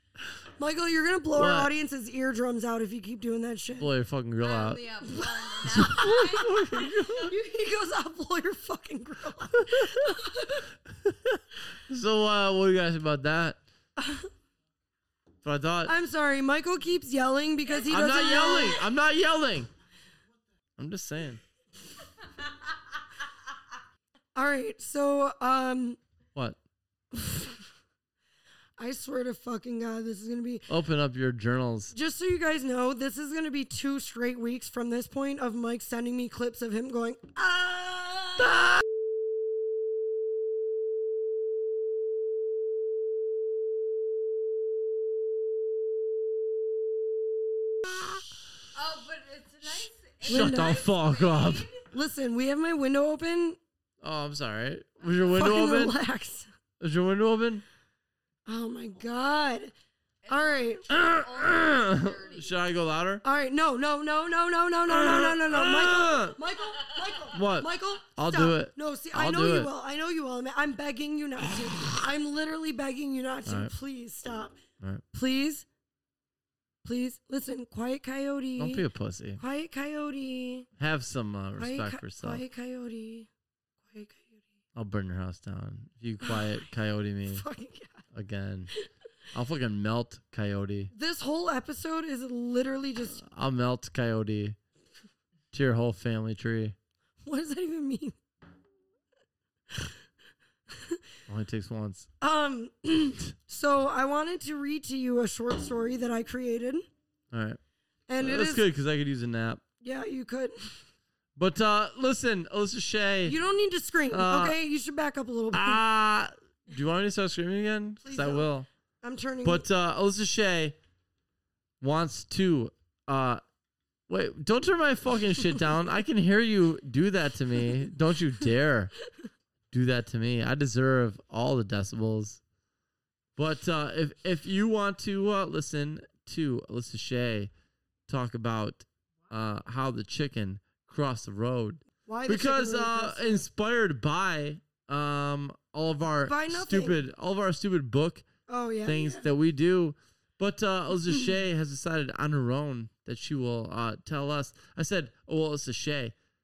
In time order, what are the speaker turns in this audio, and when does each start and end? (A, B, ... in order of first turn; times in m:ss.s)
0:00.6-0:03.9 A
0:01.4-0:01.7 B
0:03.8-0:04.8 B
0:04.4-0:07.2 C
0:05.1-0:10.7 A
0:05.6-0:07.3 B
0:09.6-0:10.1 B
0:10.9-0:13.6 B
0:14.0-0:14.3 A
0:15.4-0:15.9 B
0:15.8-0:18.8 A
0:17.8-0:19.7 B
0:20.8-0:21.4 B
0:24.4-0:26.0 A
0:27.1-0:27.6 A
0:28.8-0:30.7 A
0:30.7-0:31.9 B
0:31.9-0:38.7 A
0:48.7-0:51.8 C
0:50.2-0:50.8 A
0:50.3-0:51.7 B
0:51.9-0:53.6 A
0:54.0-0:56.0 B
0:55.3-0:56.5 A
0:56.8-0:57.6 B
0:58.4-0:59.7 A
1:00.2-1:02.5 C
1:00.3-1:00.9 A
1:00.9-1:03.2 B
1:03.2-1:14.6 A
1:04.9-1:06.4 B
1:07.3-1:09.7 B
1:13.4-1:13.7 B
1:15.1-1:15.6 A
1:16.8-1:18.8 A
1:18.6-1:19.4 B
1:19.4-1:20.7 A
1:20.8-1:22.4 B
1:21.6-1:23.3 A
1:23.9-1:24.4 A
1:24.7-1:27.4 B
1:26.2-1:26.5 A
1:27.3-1:28.0 A
1:28.1-1:28.7 B
1:29.3-1:30.9 B
1:30.9-1:33.2 A
1:33.2-1:34.6 B
1:35.5-1:36.7 B
1:37.2-1:38.2 A
1:40.7-1:41.0 A
1:41.3-1:42.1 B
1:42.2-1:46.8 A
1:47.3-1:47.6 B
1:48.1-1:48.7 A
1:48.2-1:49.6 B
1:49.8-1:50.8 A
1:51.4-1:53.4 B
1:53.2-1:55.8 A
1:54.1-1:54.6 B
1:55.5-1:58.7 B
1:58.0-1:58.5 A
1:59.0-1:59.6 A
1:59.4-2:00.8 B
2:01.8-2:03.4 B
2:04.1-2:08.9 B
2:09.7-2:12.4 B
2:13.4-2:17.5 B
2:18.1-2:28.2 B
2:22.0-2:23.4 A
2:26.2-2:27.0 A
2:28.5-2:29.2 A
2:28.8-2:36.1 B